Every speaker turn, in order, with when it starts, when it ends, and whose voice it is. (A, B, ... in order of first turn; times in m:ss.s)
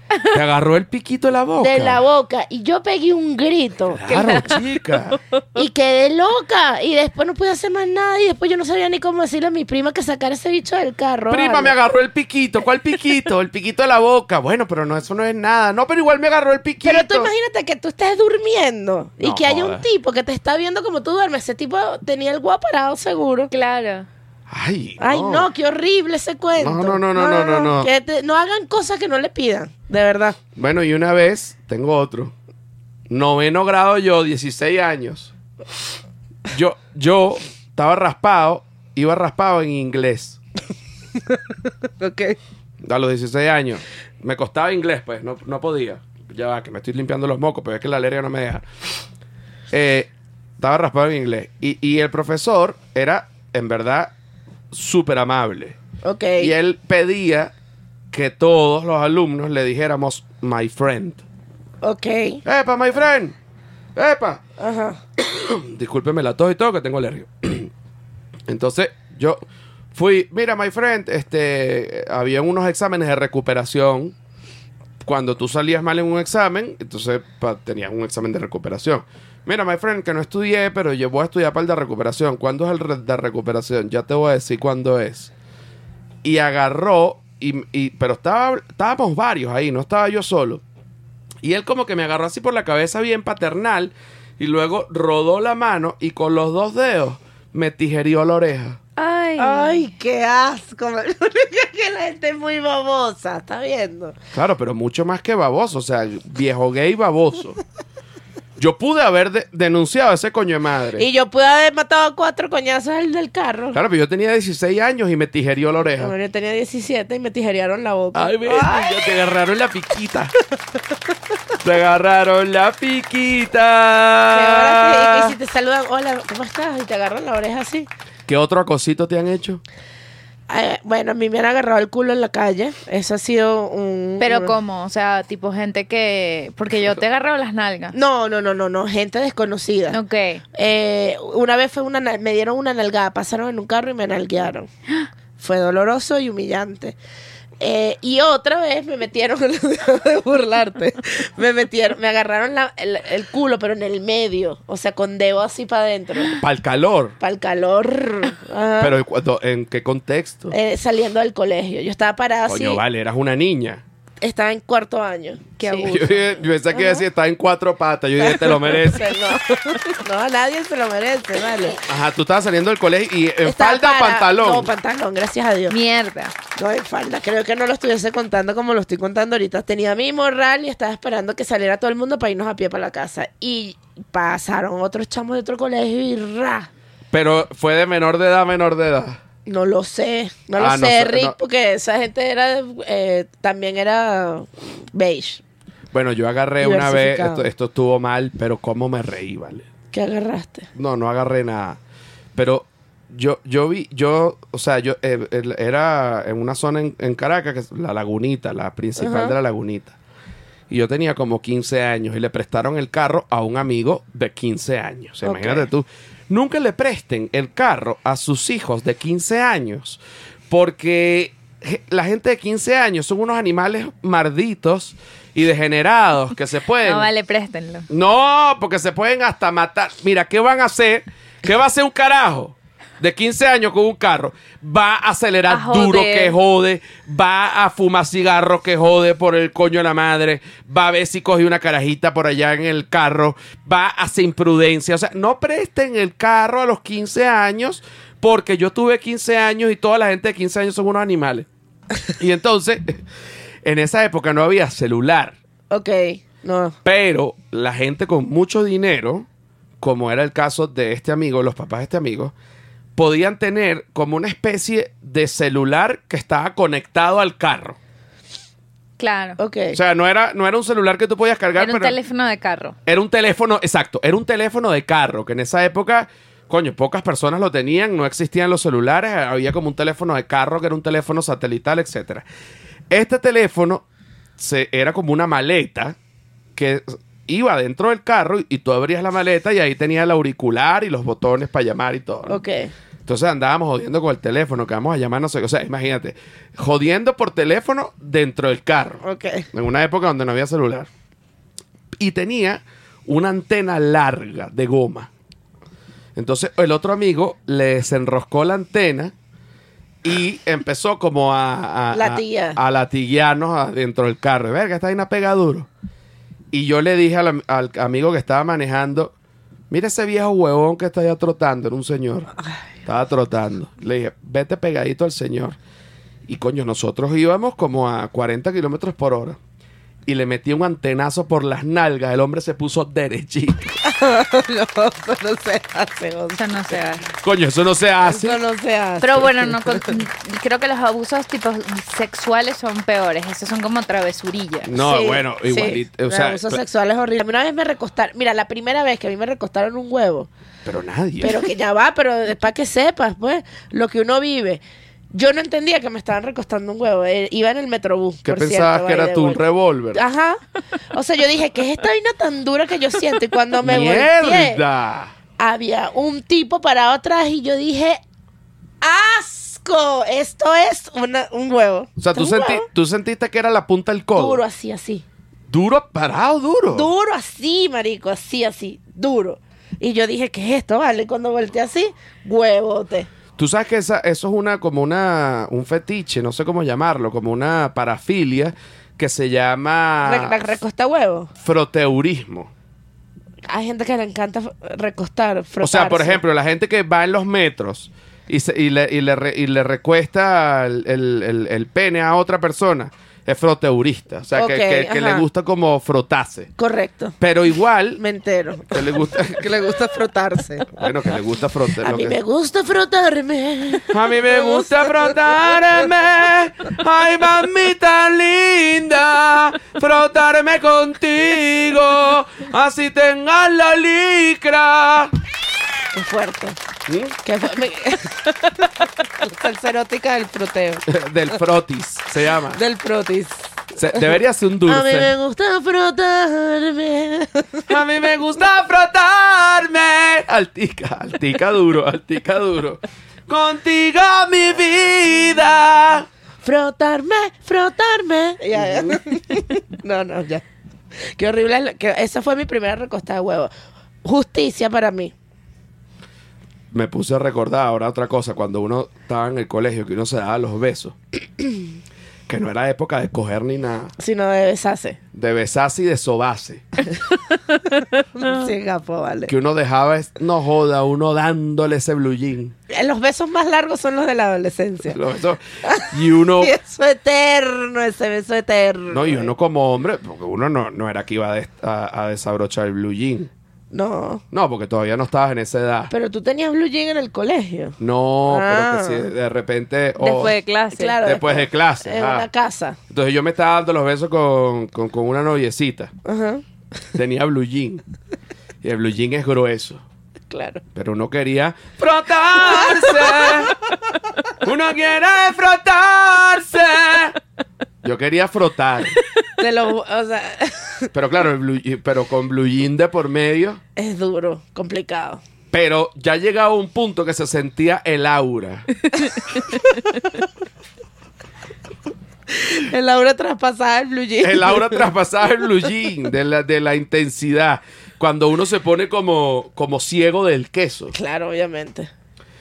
0:00.3-0:02.0 A
0:01.6-0:04.1 B
0:03.9-0:05.2 A
0:04.1-0:04.7 C
0:05.6-0:11.8 B
0:11.3-0:17.3 A
0:16.8-0:23.5 B
0:19.2-0:19.8 A
0:23.5-0:24.1 C
0:24.5-0:25.5 A
0:25.0-0:30.4 B
0:26.6-0:27.9 A
0:30.6-0:32.3 A
0:33.1-0:35.3 A
0:36.5-0:40.4 A
0:42.0-0:42.4 B
0:42.8-0:48.7 A
0:49.7-0:54.1 A
0:54.7-0:55.8 A
0:56.0-0:56.5 B
0:56.4-0:57.5 A
0:58.1-1:01.2 A
1:01.8-1:02.4 B
1:02.4-1:03.4 A
1:04.0-1:04.4 A
1:04.6-1:05.0 B
1:05.2-1:07.7 A
1:08.5-1:09.4 A
1:09.9-1:14.2 A
1:15.0-1:25.3 A
1:26.2-1:30.6 A
1:31.4-1:38.8 A
1:39.0-1:39.8 C
1:39.4-1:44.2 B
1:44.3-1:47.6 A
1:48.6-1:51.1 A
1:51.0-1:53.8 B
1:53.7-1:56.1 A
1:56.0-1:59.1 B
1:58.1-2:00.3 A
2:01.6-2:05.4 A
2:04.3-2:07.9 B
2:08.3-2:09.6 A
2:10.5-2:14.6 B
2:14.2-2:18.0 C
2:17.9-2:20.0 B
2:19.9-2:20.4 C
2:20.5-2:24.7 B
2:25.4-2:27.0 B
2:27.6-2:36.4 B
2:36.4-2:37.2 A
2:37.2-2:39.0 B
2:38.8-2:40.5 A
2:40.5-2:42.8 B
2:42.5-2:43.8 A
2:44.2-2:46.1 B
2:45.6-2:46.2 C
2:45.8-2:49.2 A
2:46.7-2:47.0 B
2:48.2-2:51.8 B
2:51.9-2:54.7 A
2:53.4-2:55.8 B
2:55.7-2:56.3 C
2:56.6-3:06.7 B
3:07.1-3:09.2 A
3:09.5-3:15.4 B
3:10.6-3:11.4 A
3:15.9-3:19.7 A
3:16.6-3:17.5 B
3:19.9-3:20.7 B
3:20.8-3:21.8 A
3:22.4-3:30.0 A
3:29.0-3:29.4 B
3:30.7-3:47.1 A
3:35.3-3:35.7 B
3:46.8-3:47.9 C
3:47.9-4:11.5 A
3:55.5-3:56.3 C
4:12.1-4:13.0 A
4:13.6-4:15.4 A
4:15.7-4:16.8 B
4:16.8-4:19.3 A
4:19.8-4:22.3 A
4:23.0-4:27.8 A
4:29.0-4:29.4 C
4:29.4-4:29.8 B
4:29.7-4:32.0 A
4:31.6-4:32.8 C
4:32.9-4:42.3 A
4:42.9-4:43.8 A
4:44.4-4:46.0 A
4:46.6-4:52.4 A
4:52.3-4:52.7 B
4:53.1-5:00.9 A
4:59.0-4:59.5 B
5:02.0-5:05.1 A
5:06.2-5:09.1 A
5:10.0-5:15.7 A
5:11.9-5:12.6 B
5:16.5-5:19.1 A
5:19.7-5:22.3 A
5:22.8-5:25.6 A
5:26.3-5:29.4 A
5:30.1-5:33.8 A
5:33.8-5:36.4 B
5:36.4-5:37.1 C
5:37.2-5:38.4 A
5:38.0-5:39.9 B
5:39.0-5:44.8 C
5:44.6-5:46.6 A
5:44.8-5:50.3 B
5:50.6-5:51.5 A
5:51.2-5:54.6 B
5:55.1-5:59.4 B
5:58.2-6:00.0 A
5:59.9-6:00.4 B
6:00.9-6:04.6 B
6:03.6-6:05.1 A
6:05.4-6:08.0 B
6:08.8-6:12.7 B
6:12.0-6:14.4 A
6:14.2-6:15.0 B
6:15.5-6:16.9 A
6:16.7-6:23.1 B
6:23.4-6:30.6 A
6:30.0-6:31.3 B
6:31.4-6:32.5 A
6:33.4-6:36.2 B
6:35.6-6:46.5 A
6:44.4-6:45.2 B
6:46.6-6:47.2 B
6:47.2-6:48.0 A
6:48.0-6:50.8 B
6:48.7-6:49.6 A
6:50.7-6:52.2 A
6:51.8-6:55.1 B
6:53.9-7:05.1 A
7:05.9-7:06.6 B
7:06.9-7:07.2 A
7:07.2-7:10.9 B
7:10.9-7:12.6 A
7:12.5-7:14.0 B
7:13.8-7:15.1 A
7:14.7-7:17.7 B
7:17.7-7:26.1 A
7:26.4-7:30.4 B
7:28.6-7:29.0 A
7:31.2-7:33.5 B
7:34.0-7:35.1 B
7:36.7-7:41.0 A
7:42.3-7:43.9 A
7:44.0-7:45.0 B
7:45.1-7:46.6 A
7:46.9-7:49.3 B
7:49.3-7:52.5 A
7:52.7-7:55.0 B
7:54.9-7:56.6 A
7:55.6-7:59.3 B
7:58.9-8:03.3 A
8:03.7-8:04.2 B
8:04.3-8:05.9 A
8:05.9-8:09.1 B
8:07.8-8:10.4 A
8:10.0-8:11.0 C
8:10.7-8:12.8 B
8:11.0-8:12.3 A
8:12.9-8:15.9 A
8:16.0-8:16.4 B
8:17.0-8:17.8 A
8:18.6-8:19.8 A
8:20.3-8:20.6 B
8:20.7-8:23.6 A
8:22.4-8:23.4 B
8:24.4-8:27.2 A
8:27.8-8:29.0 A
8:29.4-8:30.9 B
8:30.9-8:33.6 A
8:33.8-8:35.2 B
8:35.5-8:38.7 A
8:42.3-8:44.9 B
8:44.2-8:50.9 A
8:50.9-8:51.9 B